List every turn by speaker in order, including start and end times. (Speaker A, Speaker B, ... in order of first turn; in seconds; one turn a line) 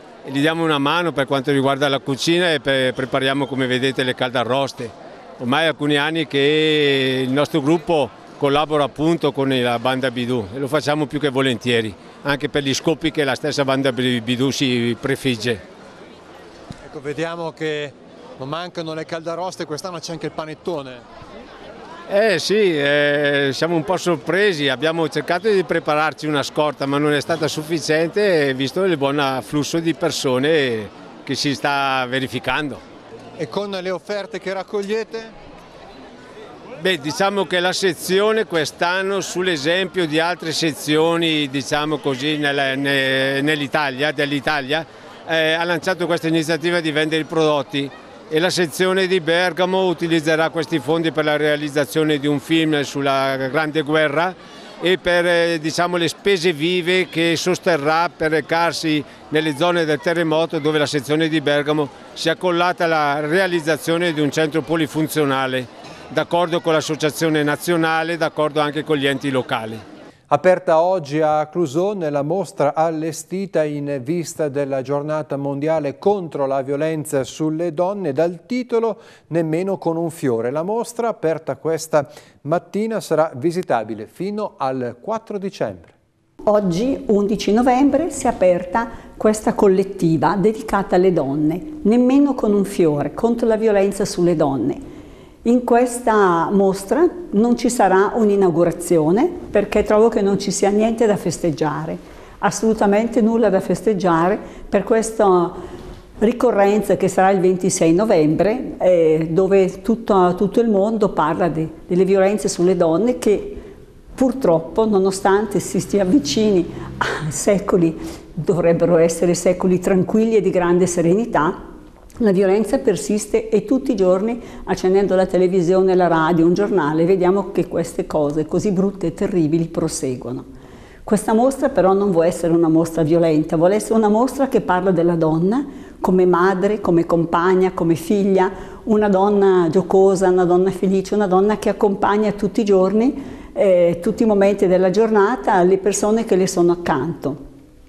Speaker A: 0.2-15.6
Speaker B: 16.8-21.1
Speaker A: 22.1-32.8
Speaker B: 33.4-35.4
Speaker A: 36.8-69.8
Speaker B: 70.3-85.9
Speaker C: 86.5-94.8
Speaker C: 95.5-105.6
Speaker C: 106.2-113.7
Speaker C: 114.2-121.7
Speaker C: 122.2-130.5
Speaker C: 131.1-147.4